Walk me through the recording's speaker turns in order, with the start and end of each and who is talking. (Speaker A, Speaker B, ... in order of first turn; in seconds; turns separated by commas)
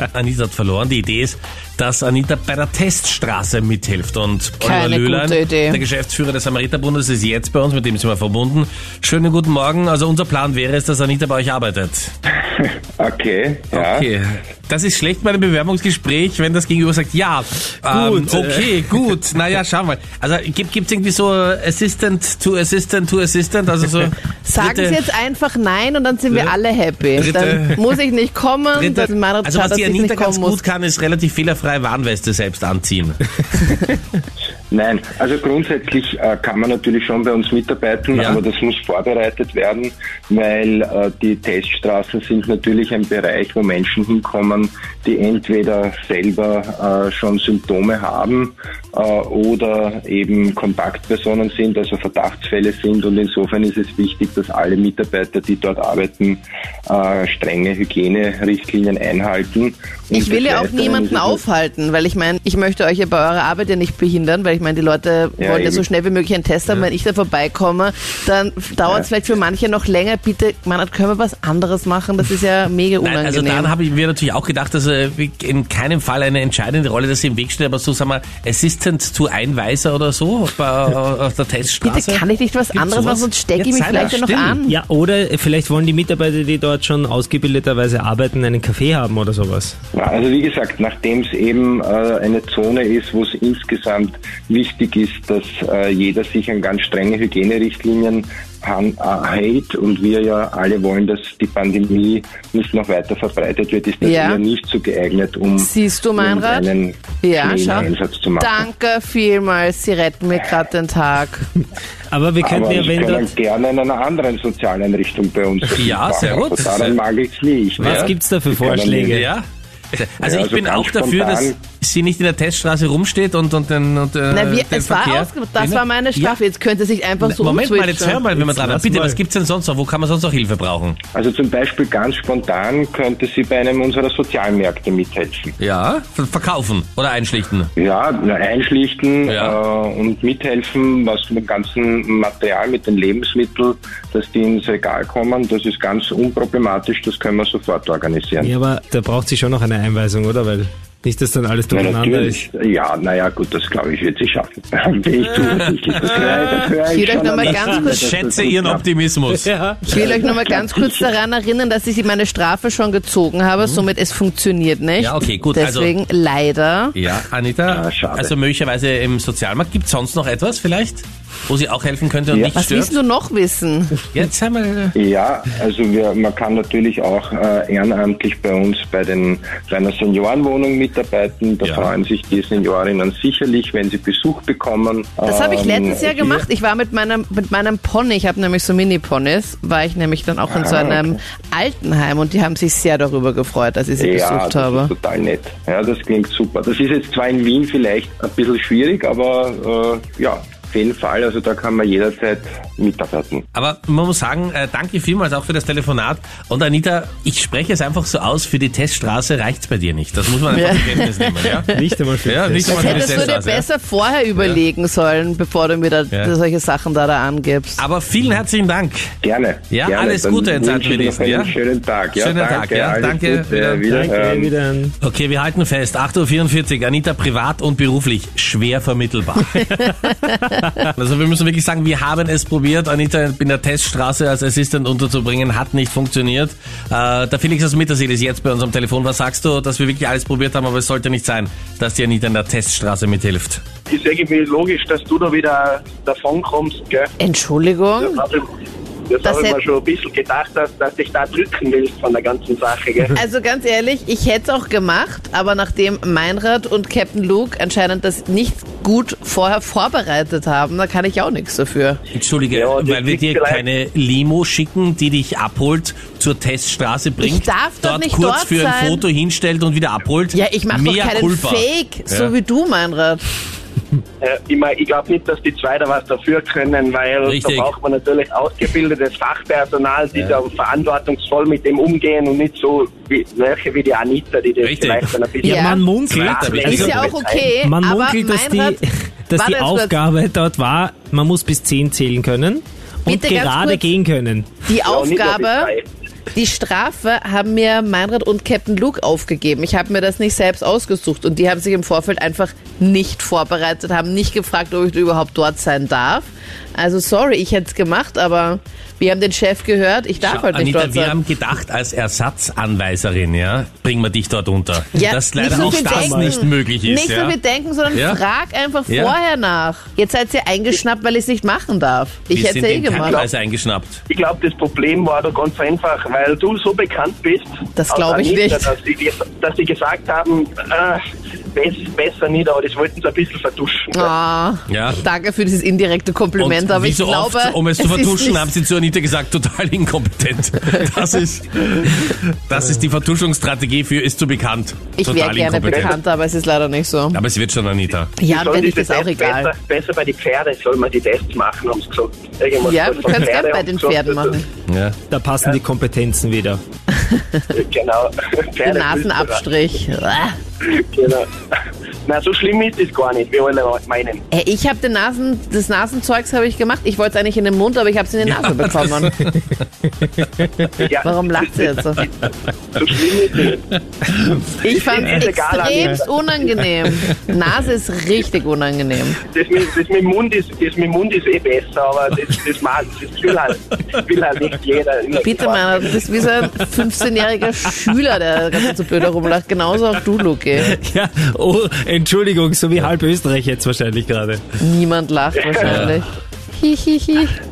Speaker A: 0.1-12.1, Speaker B: 4.6-5.8, Speaker C: 12.6-14.1, Speaker A: 13.7-25.0, Speaker D: 17.9-18.8, Speaker B: 24.4-30.6, Speaker A: 27.1-27.8, Speaker A: 28.7-33.3, Speaker C: 34.7-61.4, Speaker A: 38.1-38.4, Speaker B: 60.1-73.7, Speaker C: 65.4-65.8, Speaker A: 73.0-84.6, Speaker B: 81.8-84.8, Speaker D: 84.7-89.8, Speaker C: 89.9-108.6, Speaker B: 104.0-104.4, Speaker B: 105.6-106.7, Speaker B: 107.2-111.5, Speaker D: 112.1-113.3, Speaker C: 112.4-119.3, Speaker A: 115.7-117.0, Speaker D: 117.8-119.3, Speaker A: 117.8-118.1, Speaker A: 119.1-126.4, Speaker C: 120.2-121.6, Speaker B: 124.3-128.2, Speaker A: 127.2-131.0, Speaker D: 128.3-129.2, Speaker C: 131.1-135.5, Speaker A: 135.6-137.7, Speaker C: 137.8-148.5, Speaker A: 139.2-139.6, Speaker D: 148.4-152.4, Speaker C: 151.7-158.8, Speaker A: 155.3-156.4, Speaker B: 156.8-158.1, Speaker A: 157.5-159.5, Speaker D: 159.3-160.1, Speaker B: 159.9-166.9, Speaker C: 159.9-161.1, Speaker A: 165.0-165.9, Speaker A: 166.9-172.9, Speaker C: 167.7-168.3, Speaker B: 172.5-173.9, Speaker A: 174.1-174.9, Speaker C: 174.9-186.4, Speaker A: 181.6-181.9, Speaker B: 185.2-194.9, Speaker C: 190.5-191.2, Speaker C: 194.0-203.4, Speaker A: 203.5-211.7, Speaker B: 210.5-211.8, Speaker D: 211.7-213.3, Speaker A: 212.3-213.7, Speaker B: 212.6-217.8, Speaker A: 217.8-219.1, Speaker C: 219.2-224.5, Speaker A: 219.7-221.6, Speaker A: 222.1-223.9, Speaker D: 223.9-224.9, Speaker A: 225.0-230.0, Speaker A: 230.9-243.6, Speaker E: 243.9-247.1, Speaker B: 247.2-248.2, Speaker E: 248.0-248.5, Speaker E: 249.1-253.1, Speaker B: 249.2-249.6, Speaker B: 253.1-262.0, Speaker A: 262.1-272.3, Speaker E: 262.5-263.6, Speaker B: 267.2-269.0, Speaker B: 270.3-273.2, Speaker E: 274.2-287.5, Speaker A: 277.2-277.7, Speaker A: 284.6-285.2, Speaker B: 285.4-285.8, Speaker D: 285.4-287.0, Speaker A: 286.0-287.2, Speaker B: 286.9-288.8, Speaker D: 287.6-294.5, Speaker B: 289.3-289.9, Speaker B: 293.1-293.9, Speaker B: 294.7-295.7, Speaker E: 294.8-295.9, Speaker B: 296.3-311.1, Speaker A: 310.2-317.4, Speaker B: 314.9-323.2, Speaker D: 315.4-316.4, Speaker A: 317.9-318.2, Speaker A: 318.9-319.1, Speaker A: 322.3-324.0, Speaker E: 323.0-323.3, Speaker E: 324.1-331.0, Speaker B: 327.8-328.7, Speaker E: 331.5-334.1, Speaker B: 333.9-338.5, Speaker A: 334.7-335.0, Speaker A: 336.4-345.9, Speaker B: 345.0-347.2, Speaker E: 345.7-345.9, Speaker A: 347.1-348.1, Speaker B: 348.2-349.5, Speaker E: 348.2-354.4, Speaker B: 352.6-354.4, Speaker A: 354.7-354.9, Speaker D: 355.1-356.6, Speaker B: 356.9-357.4, Speaker E: 357.5-359.4, Speaker B: 358.6-360.3, Speaker E: 360.6-361.3, Speaker E: 362.0-364.2, Speaker B: 364.3-369.1, Speaker A: 368.2-370.7, Speaker E: 370.8-373.6, Speaker B: 371.0-372.0, Speaker B: 374.6-379.2, Speaker E: 374.7-376.7, Speaker E: 379.2-386.2, Speaker B: 385.2-390.8, Speaker D: 390.5-394.4, Speaker B: 394.6-397.4, Speaker E: 395.4-395.7, Speaker A: 395.6-395.9